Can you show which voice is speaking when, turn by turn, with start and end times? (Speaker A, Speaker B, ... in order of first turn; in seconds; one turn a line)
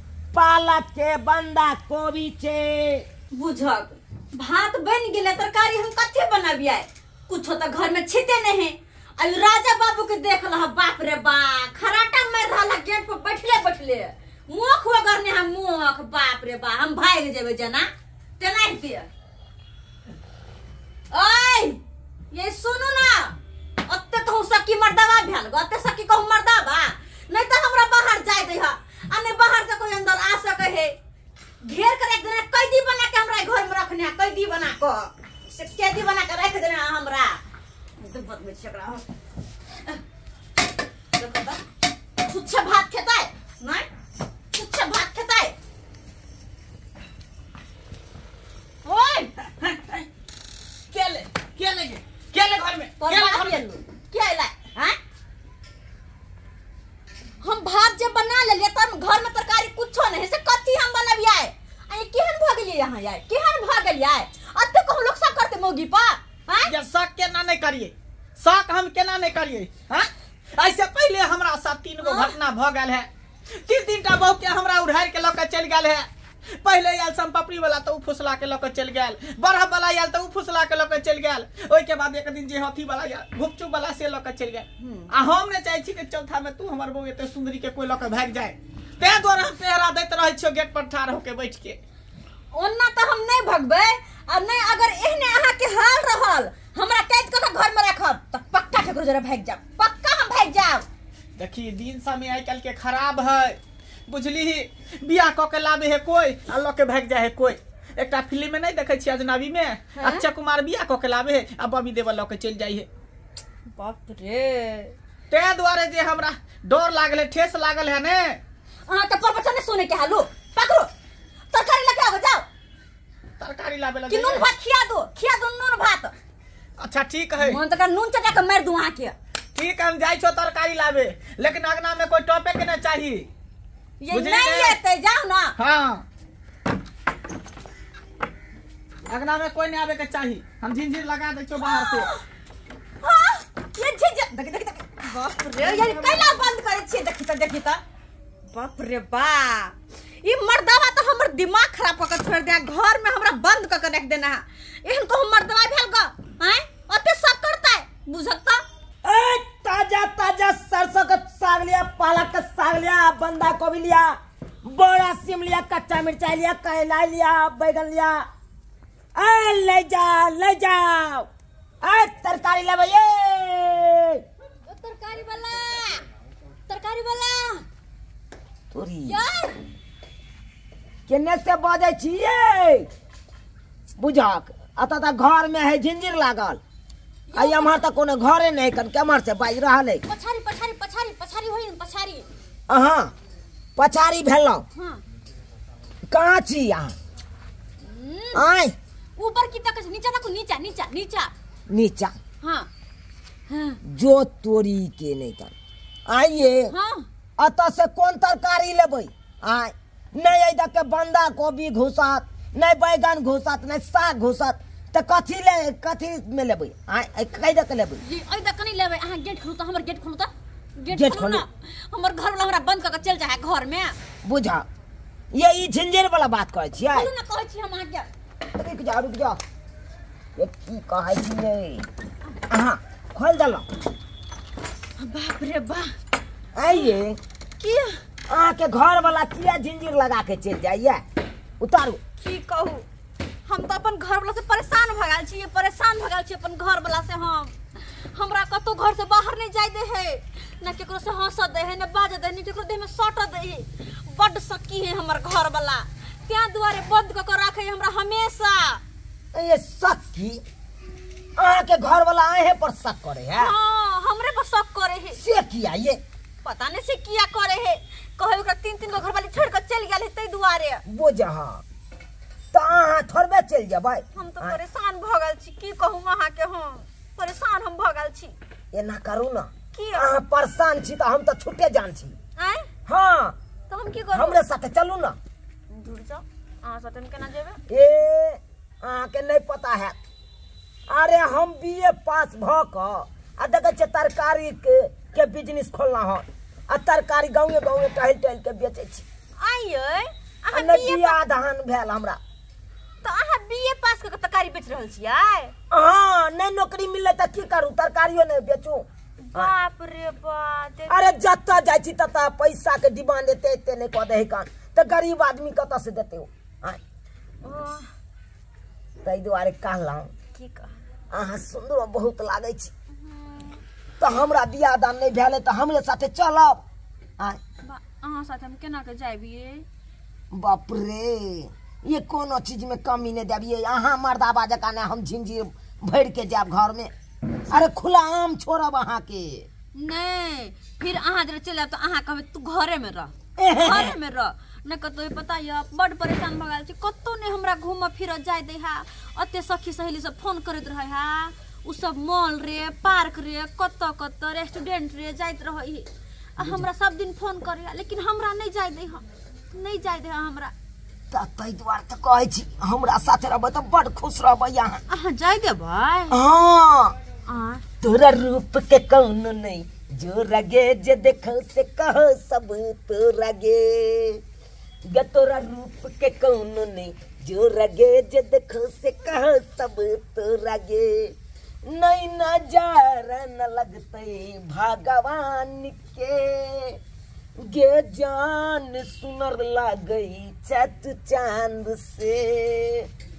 Speaker A: 0.3-3.0
Speaker B: 3.3-17.9
Speaker B: 18.4-19.1
Speaker B: 21.1-30.9
Speaker B: 31.6-37.4
Speaker B: 38.0-39.0
Speaker B: 41.2-41.6
Speaker B: 42.2-43.9
Speaker B: 44.5-45.6
Speaker B: 48.8-49.3
Speaker C: 49.6-50.0
Speaker C: 50.9-53.6
Speaker B: 53.0-55.0
Speaker B: 57.4-66.7
Speaker C: 66.7-73.1
Speaker B: 72.0-72.3
Speaker C: 73.6-76.1
Speaker C: 76.6-91.8
Speaker B: 84.8-85.1
Speaker B: 92.5-100.9
Speaker C: 101.4-112.9
Speaker B: 110.0-110.2
Speaker B: 113.8-114.9
Speaker C: 115.3-118.4
Speaker B: 118.9-120.9
Speaker B: 121.5-122.5
Speaker C: 123.4-124.5
Speaker B: 124.1-126.1
Speaker C: 126.8-127.6
Speaker B: 127.4-129.2
Speaker C: 129.6-133.3
Speaker B: 134.0-135.6
Speaker C: 134.1-134.8
Speaker C: 135.6-136.0
Speaker C: 139.1-142.1
Speaker B: 141.6-142.2
Speaker B: 143.0-147.8
Speaker C: 145.6-146.4
Speaker B: 148.5-158.6
Speaker A: 159.0-168.2
Speaker A: 169.2-171.3
Speaker A: 171.8-174.2
Speaker B: 174.7-176.0
Speaker B: 176.7-177.7
Speaker A: 178.7-179.2
Speaker B: 179.1-179.6
Speaker A: 181.1-182.9
Speaker A: 184.0-186.6
Speaker B: 187.3-187.9
Speaker A: 187.3-190.0
Speaker B: 190.1-192.3
Speaker A: 192.7-193.1
Speaker A: 193.8-194.7
Speaker B: 194.8-195.0
Speaker A: 196.1-196.9
Speaker B: 197.8-198.4
Speaker A: 198.3-198.8
Speaker B: 199.2-201.3
Speaker A: 201.7-202.1
Speaker B: 202.4-202.7
Speaker B: 203.5-203.8
Speaker A: 203.8-205.5
Speaker A: 206.1-206.7
Speaker B: 206.7-207.1
Speaker A: 207.4-218.0
Speaker B: 218.0-223.9
Speaker A: 220.9-221.4
Speaker A: 224.2-224.7
Speaker A: 225.3-227.1
Speaker B: 226.9-228.1
Speaker A: 228.5-229.4
Speaker A: 230.4-231.9
Speaker A: 232.5-233.7
Speaker B: 235.0-235.9
Speaker A: 236.6-237.2
Speaker B: 237.6-238.0
Speaker A: 238.3-241.0
Speaker A: 241.6-242.0
Speaker B: 242.2-242.9
Speaker B: 243.4-258.8
Speaker A: 259.3-260.4
Speaker A: 261.4-263.5
Speaker B: 263.4-265.2
Speaker A: 265.1-266.0
Speaker B: 266.4-270.8
Speaker A: 270.9-271.6
Speaker A: 272.5-274.6
Speaker B: 274.1-278.4
Speaker A: 278.7-282.1
Speaker B: 279.7-280.1
Speaker B: 282.4-282.7
Speaker A: 282.9-283.4
Speaker B: 283.7-284.4
Speaker A: 284.1-285.2
Speaker B: 285.7-287.6
Speaker A: 287.7-290.0
Speaker A: 290.9-299.1
Speaker B: 299.4-301.2
Speaker A: 300.5-302.2
Speaker B: 303.0-305.5
Speaker A: 305.7-309.5
Speaker B: 309.3-311.1
Speaker A: 310.9-316.8
Speaker B: 317.4-317.9
Speaker A: 319.0-320.1
Speaker B: 320.3-320.7
Speaker A: 321.1-322.7
Speaker B: 323.0-323.6
Speaker A: 324.0-326.6
Speaker B: 327.6-329.7
Speaker A: 330.3-336.9
Speaker A: 337.5-339.5
Speaker B: 339.8-360.5
Speaker A: 343.4-343.9
Speaker A: 356.4-356.7
Speaker A: 361.1-364.8
Speaker B: 364.9-366.2
Speaker A: 366.1-367.0
Speaker B: 367.3-367.6
Speaker A: 367.8-374.2
Speaker A: 374.9-381.1
Speaker A: 381.7-386.8
Speaker A: 387.4-392.9